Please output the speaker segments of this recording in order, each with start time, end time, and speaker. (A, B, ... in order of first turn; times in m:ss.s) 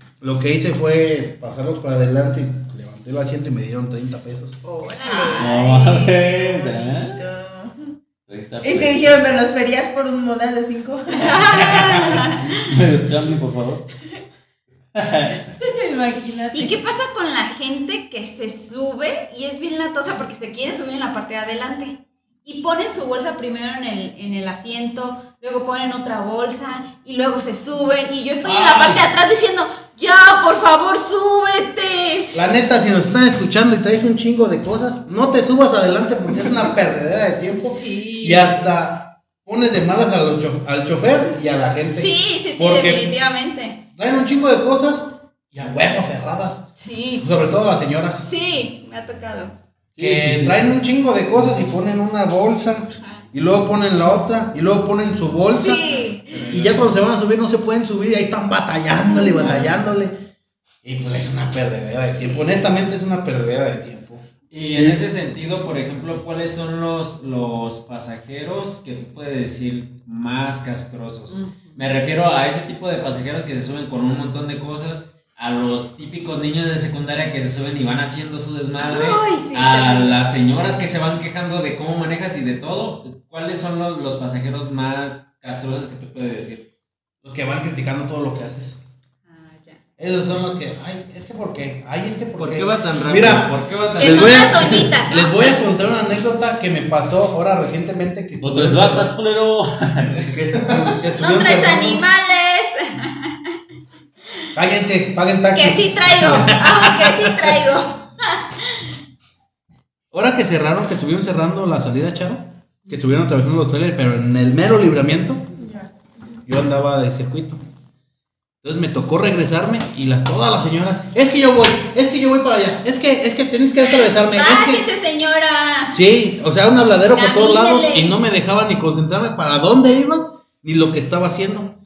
0:00.2-0:04.6 A
0:04.6-0:05.5 B
0:05.0-0:07.8 C
0:05.4-0:07.2 D
0:08.3-0:09.2 D
0:08.6-0:11.9 C
0:11.1-0:12.4 B
0:11.6-0:13.9 D
0:14.9-0:15.5 D
0:15.6-0:16.8 C
0:16.5-0:32.3 B
0:28.4-0:29.1 A
0:32.3-0:43.1 A
0:37.6-0:38.5 B
0:41.9-0:43.8 B
0:44.0-0:46.7 A
0:46.8-0:47.2 B
0:47.2-0:48.3 A
0:48.2-0:49.6 B
0:49.9-0:50.7 D
0:50.0-1:00.2 A
0:55.5-0:56.4 B
0:56.3-0:56.8 E
0:59.1-0:59.6 B
0:59.1-0:59.6 C
1:00.8-1:04.2 A
1:01.9-1:02.6 B
1:04.5-1:26.7 E
1:11.3-1:11.8 B
1:18.8-1:20.2 B
1:27.2-1:28.8 A
1:29.3-1:29.8 B
1:30.0-1:39.1 A
1:32.4-1:34.8 E
1:34.0-1:35.5 B
1:38.4-1:40.2 D
1:40.3-1:42.0 A
1:41.2-1:43.5 B
1:44.5-1:47.6 A
1:45.5-1:48.8 B
1:50.1-1:55.4 A
1:55.6-1:55.9 C
1:56.5-1:57.6 A
1:58.6-2:04.8 A
2:04.3-2:05.9 B
2:05.9-2:11.8 A
2:07.1-2:08.1 B